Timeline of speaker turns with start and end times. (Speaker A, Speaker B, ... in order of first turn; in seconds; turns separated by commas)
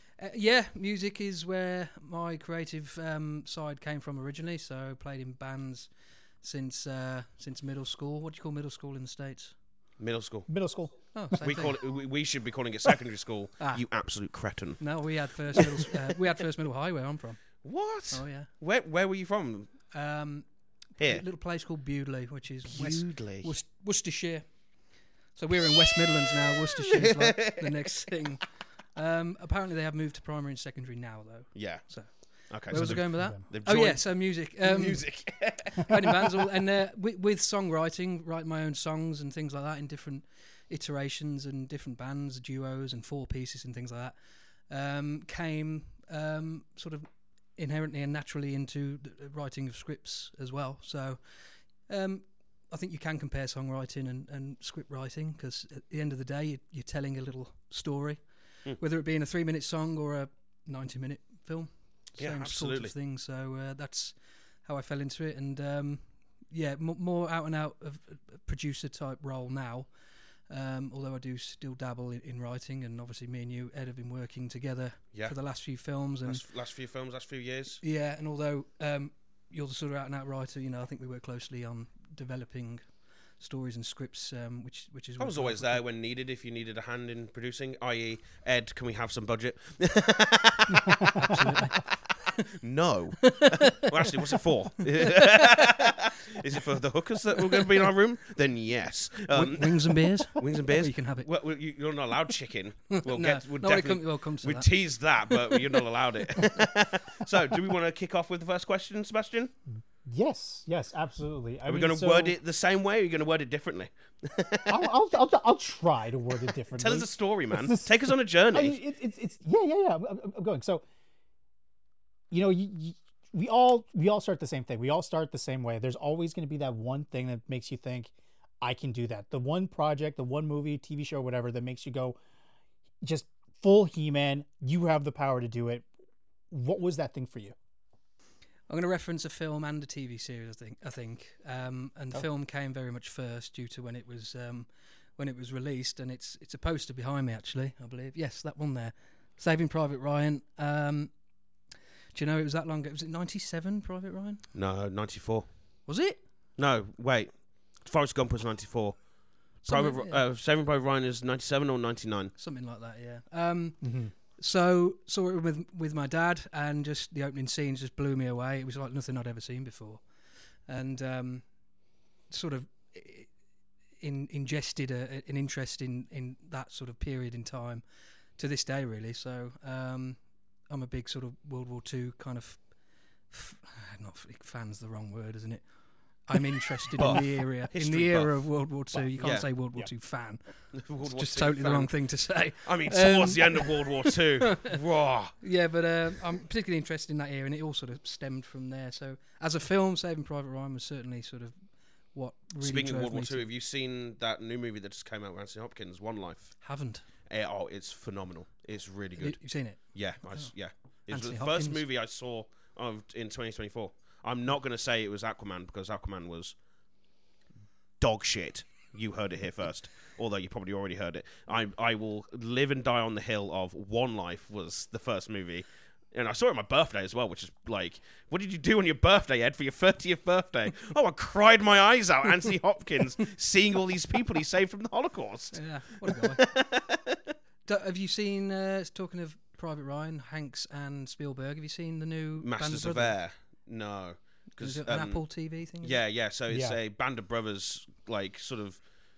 Speaker A: 0.2-9.6, Speaker B: 10.0-10.5, Speaker C: 10.5-10.9, Speaker A: 11.1-11.8, Speaker B: 11.4-14.8, Speaker A: 13.6-13.8, Speaker A: 14.8-17.4, Speaker B: 15.6-15.8, Speaker B: 17.6-19.7, Speaker A: 18.1-18.5, Speaker A: 19.9-24.6, Speaker B: 22.6-23.5, Speaker A: 25.3-44.2, Speaker B: 26.9-27.9, Speaker B: 31.6-36.4, Speaker C: 32.7-33.4, Speaker A: 44.7-69.9, Speaker B: 62.2-62.9, Speaker A: 70.5-76.4, Speaker B: 76.2-77.8, Speaker A: 77.8-85.8, Speaker B: 85.2-91.9, Speaker A: 91.3-91.8, Speaker B: 92.6-109.5, Speaker A: 93.2-94.1, Speaker A: 95.0-95.4, Speaker A: 97.4-97.7, Speaker A: 99.3-101.3, Speaker A: 102.9-104.7, Speaker A: 105.3-105.8, Speaker C: 110.0-112.4, Speaker B: 111.7-114.8, Speaker C: 114.7-120.8, Speaker B: 116.8-118.8, Speaker C: 122.3-132.2, Speaker C: 133.0-135.9, Speaker C: 136.5-137.6, Speaker A: 138.7-151.2, Speaker A: 152.1-154.5, Speaker B: 154.5-155.5, Speaker A: 155.9-156.2, Speaker B: 156.6-162.3, Speaker A: 159.6-160.2, Speaker A: 162.4-170.1, Speaker C: 163.8-164.1, Speaker A: 170.7-173.3, Speaker A: 174.0-177.8, Speaker A: 178.4-182.8, Speaker A: 183.3-194.8, Speaker B: 186.9-189.5, Speaker B: 190.7-195.4, Speaker A: 195.4-201.5, Speaker A: 202.1-203.4, Speaker B: 202.6-206.6, Speaker A: 206.6-207.0, Speaker B: 207.3-216.6, Speaker A: 209.2-210.5, Speaker A: 211.1-211.8, Speaker B: 218.0-237.3, Speaker A: 235.5-236.4, Speaker A: 237.7-243.2, Speaker B: 242.4-245.2, Speaker A: 244.6-246.0, Speaker B: 245.8-248.8, Speaker C: 246.5-246.8